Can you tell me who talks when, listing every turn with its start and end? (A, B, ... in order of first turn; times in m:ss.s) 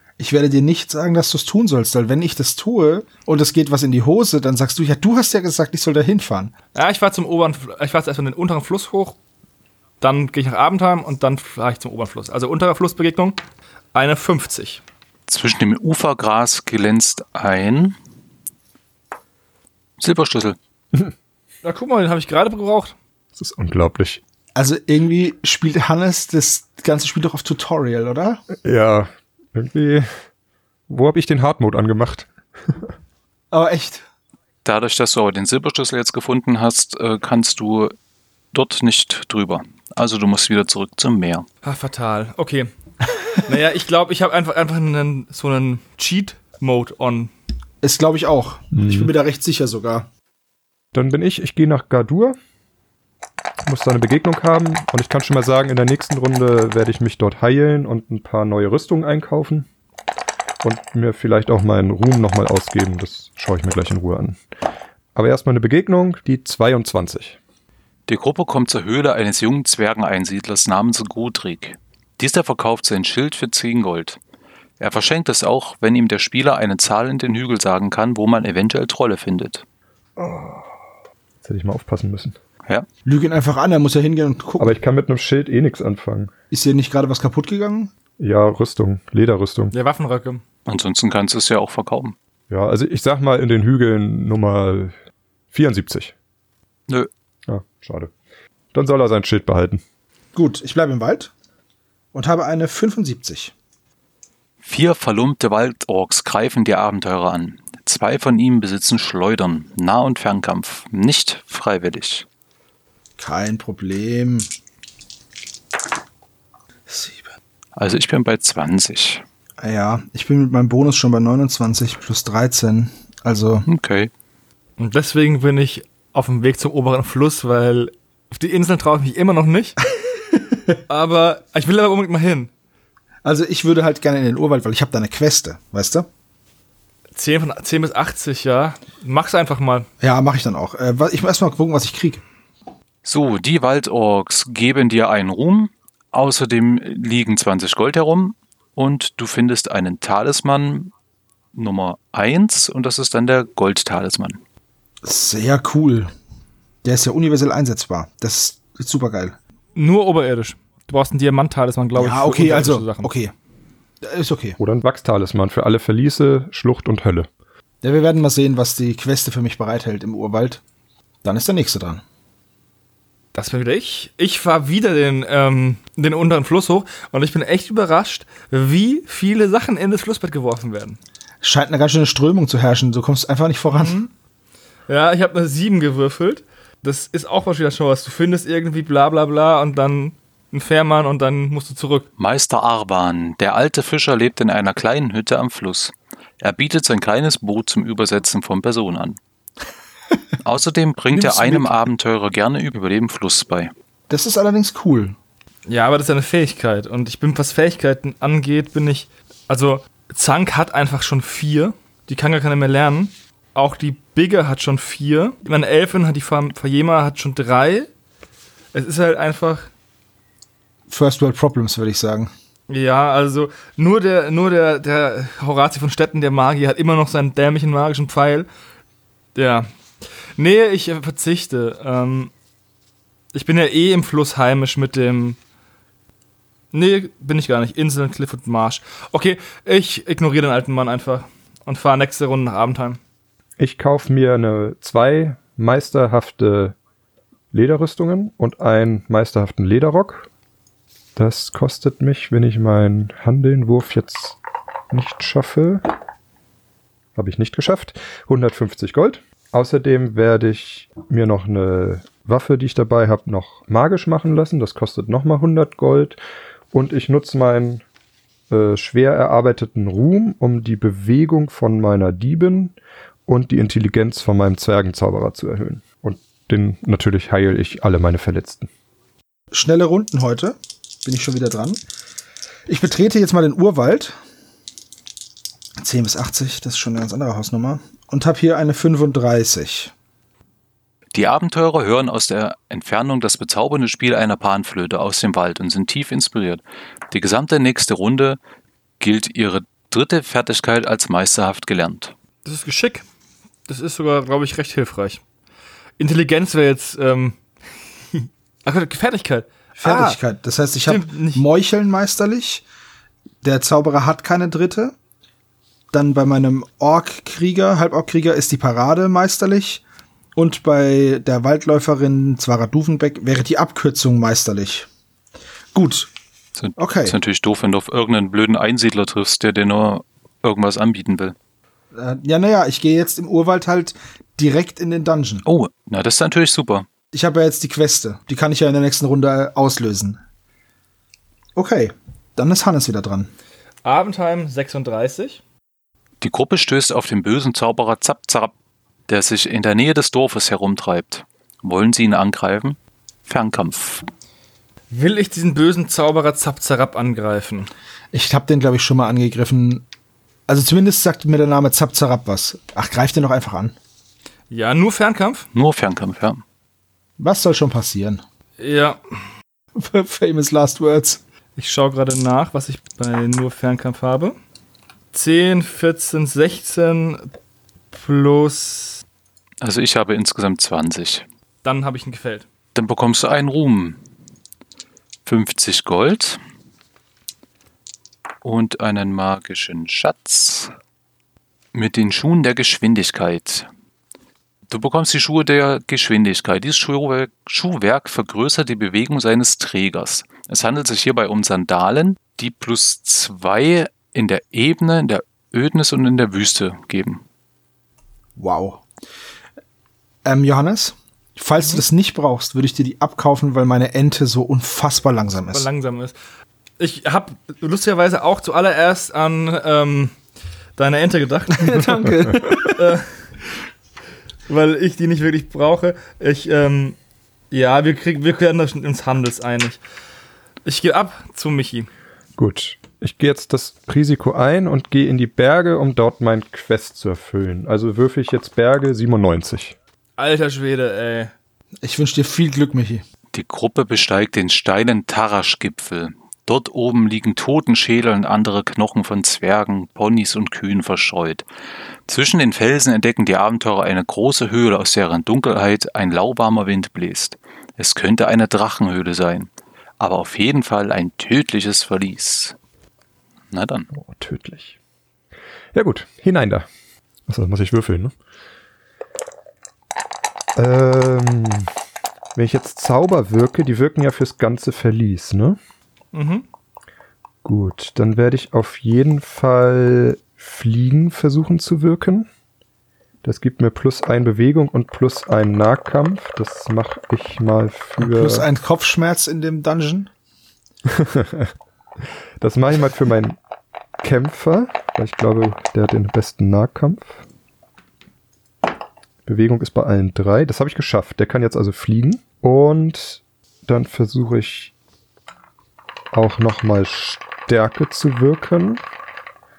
0:00.2-0:06.5 A
0:06.7-0:09.2 B
0:10.0-0:13.4 B
0:13.9-0:14.8 B
0:15.3-0:18.0 C
0:20.0-0:20.6 C
0:21.6-0:23.0 B
0:23.4-0:24.2 D
0:24.6-0:28.4 A
0:28.6-0:30.1 D
0:30.9-0:32.9 D
0:33.5-0:34.0 A
0:34.6-0:37.9 C
0:38.5-0:41.5 C
0:41.6-0:42.7 B
0:43.4-0:47.3 B
0:47.8-0:50.1 A
0:48.7-0:49.1 D
0:50.9-0:52.4 D
0:53.6-0:59.7 D
1:00.6-1:04.4 D
1:05.2-1:07.4 D
1:08.1-1:14.2 C
1:14.8-1:19.6 C
1:20.2-1:20.8 D
1:21.4-1:22.4 D
1:23.0-1:24.7 A
1:24.6-1:26.3 D
1:26.5-1:27.9 A
1:28.2-1:29.7 D
1:29.7-1:30.4 B
1:30.7-1:32.2 C
1:32.5-1:35.0 D
1:35.5-1:36.1 D
1:37.5-1:38.1 D
1:38.7-1:39.8 D
1:40.3-1:41.3 A
1:42.1-1:43.5 A
1:44.6-1:52.3 C
1:53.2-1:54.5 A
1:56.9-1:57.3 A
1:57.8-1:59.2 C
1:59.6-2:03.7 A
2:03.7-2:04.1 C
2:04.8-2:09.8 B
2:10.9-2:12.5 B
2:13.2-2:16.1 A
2:17.2-2:19.9 B
2:20.0-2:22.2 A
2:23.0-2:30.9 C
2:31.5-2:34.4 C
2:35.0-2:36.1 A
2:36.8-2:39.4 A
2:39.8-2:43.1 B
2:42.0-2:43.3 A
2:44.0-2:44.6 A
2:44.6-2:47.3 D
2:47.8-2:50.6 A
2:51.2-2:52.0 A
2:53.3-3:01.0 B
3:01.4-3:04.0 A
3:03.8-3:04.1 B
3:04.9-3:12.1 B
3:12.2-3:19.2 C
3:20.4-3:23.7 C
3:21.1-3:21.7 A
3:24.1-3:25.2 A
3:25.7-3:37.9 B
3:38.7-3:39.7 B
3:40.9-3:42.3 A
3:42.7-3:48.5 B
3:49.4-3:49.7 B
3:50.4-3:52.3 B
3:53.3-3:55.4 B
3:56.7-4:03.0 B
4:03.6-4:06.8 D
4:07.5-4:10.3 D
4:11.2-4:14.4 D
4:14.9-4:15.9 D
4:17.2-4:26.2 D
4:26.7-4:27.8 D
4:28.5-4:32.8 D
4:33.3-4:38.7 D
4:39.5-4:41.8 A
4:42.7-4:44.2 A
4:45.8-4:49.9 A
4:51.1-4:58.4 C
4:59.0-5:02.1 C
5:02.4-5:03.0 B
5:03.7-5:05.2 B
5:06.0-5:07.4 B
5:08.1-5:10.2 B
5:09.8-5:12.6 A
5:10.9-5:11.4 B
5:13.4-5:15.0 A
5:15.9-5:19.8 A
5:20.4-5:24.9 A
5:25.7-5:26.1 A
5:26.6-5:31.4 C
5:26.8-5:27.2 A
5:31.9-5:35.4 A
5:35.4-5:36.9 C
5:37.1-5:40.2 A
5:41.6-5:43.3 A
5:43.8-5:45.4 B
5:46.2-5:48.5 C
5:49.1-5:54.1 C
5:54.9-5:57.7 B
5:58.1-5:59.9 A
6:00.5-6:03.8 A
6:04.5-6:05.5 B
6:05.5-6:06.4 C
6:07.2-6:08.2 A
6:08.6-6:09.0 B
6:09.8-6:11.2 A
6:11.6-6:14.4 B
6:15.1-6:17.3 B
6:17.9-6:19.0 B
6:19.6-6:21.2 C
6:21.6-6:22.5 B
6:22.8-6:24.0 C
6:25.3-6:26.4 C
6:28.4-6:30.7 C
6:31.7-6:33.7 C
6:34.7-6:47.2 C
6:48.4-6:48.8 A
6:50.2-6:55.7 A
6:55.5-6:56.2 B
6:56.8-7:00.2 B
7:00.8-7:03.1 B
7:01.5-7:02.8 A
7:04.5-7:07.0 B
7:07.5-7:09.8 B
7:10.6-7:11.9 B
7:12.4-7:19.8 D
7:20.2-7:21.3 B
7:21.8-7:23.0 A
7:23.3-7:31.4 C
7:32.1-7:42.6 C
7:43.5-7:43.9 C
7:43.9-7:44.8 D
7:45.7-7:46.7 D
7:47.3-7:48.2 D
7:50.6-7:51.7 D
7:52.4-7:55.6 D
7:56.1-7:56.5 B
7:57.4-8:02.3 D
8:03.2-8:08.5 D
8:08.0-8:10.1 A
8:10.9-8:11.5 D
8:12.4-8:13.4 D
8:14.0-8:17.2 D
8:19.3-8:24.7 D
8:26.1-8:28.8 D